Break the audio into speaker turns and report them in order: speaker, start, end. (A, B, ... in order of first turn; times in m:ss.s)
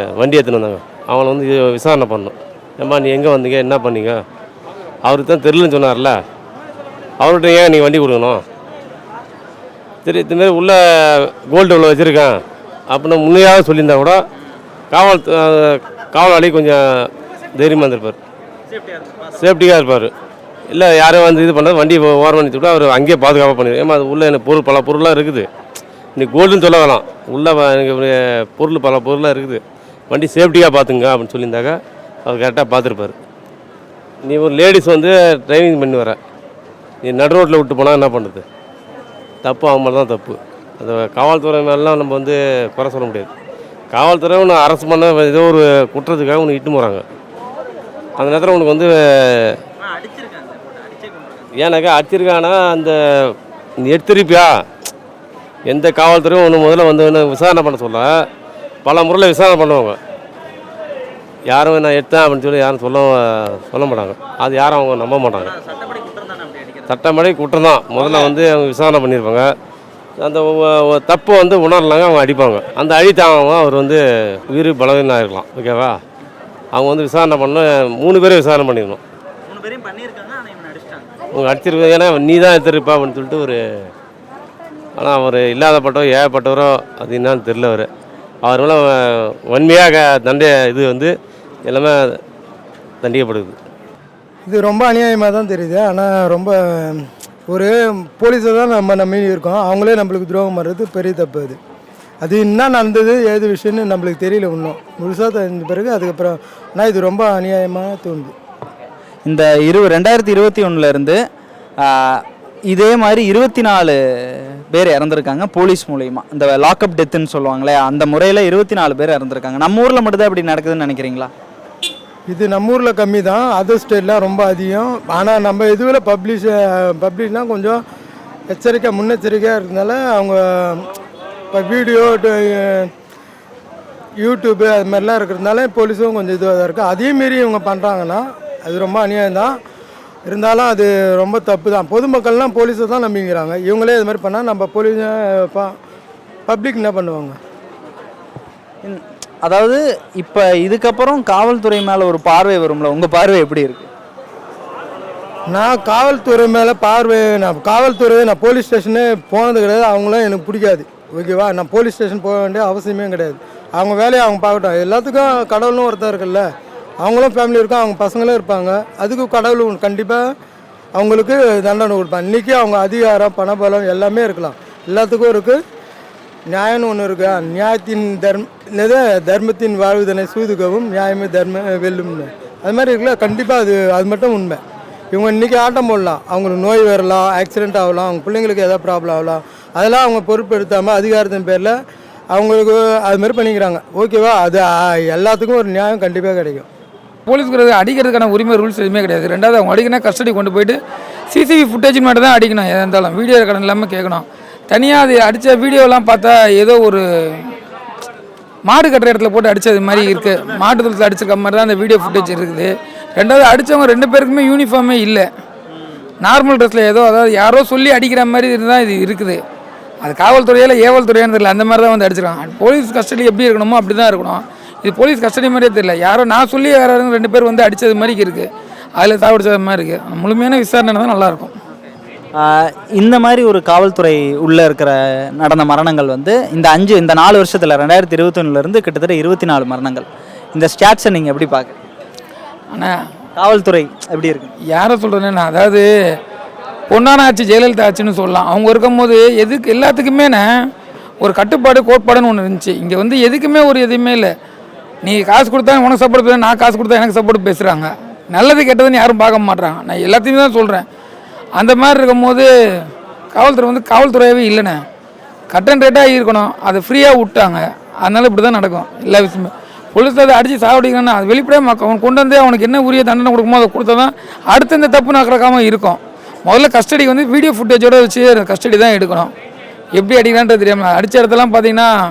0:00.2-0:04.2 A
0:05.0-0:06.2 A
0:07.2-0:08.4 A
0:10.0-0:12.4 A
0:12.9-0:14.2 A
0:14.9-0:16.8 A
0:17.5-0:18.2 A
0:19.4-0:20.1 A
0:20.7-0:25.5 A
0:26.2-0:33.1 A
0:34.2-0:36.2 A
0:37.0-0:38.4 A
0:39.4-0:43.3 A
0:43.9-0:47.0 A
0:48.2-0:49.5 A
0:51.6-0:54.5 A
0:55.7-0:58.1 A
0:58.8-1:00.0 A
1:01.5-1:05.6 A
1:06.9-1:09.5 A
1:10.2-1:16.0 A
1:16.7-1:19.0 A
1:19.7-1:20.5 B
1:21.3-1:23.6 A
1:25.0-1:27.9 A
1:28.4-1:31.1 A
1:31.7-1:31.9 A
1:33.0-1:33.5 A
1:34.4-1:41.6 C
1:42.2-1:48.3 C
1:49.2-1:51.2 B
1:51.8-2:01.3 B
2:02.3-2:07.8 C
2:08.5-2:10.9 C
2:11.5-2:12.9 C
2:14.2-2:19.5 C
2:20.2-2:25.7 C
2:26.5-2:27.4 C
2:28.8-2:33.9 B
2:35.5-2:46.4 C
2:47.0-2:50.2 C
2:50.9-2:55.6 C
2:56.5-3:04.6 C
3:05.1-3:11.7 C
3:12.3-3:16.7 C
3:17.3-3:20.8 D
3:21.3-3:27.5 D
3:28.6-3:35.3 D
3:36.2-3:39.4 D
3:40.0-3:51.5 D
3:52.4-4:01.7 B
4:03.4-4:04.5 B
4:04.7-4:05.9 D
4:06.9-4:10.5 D
4:11.2-4:14.3 D
4:15.0-4:20.8 D
4:21.6-4:22.5 D
4:23.3-4:24.8 D
4:25.5-4:39.3 D
4:39.9-4:41.9 D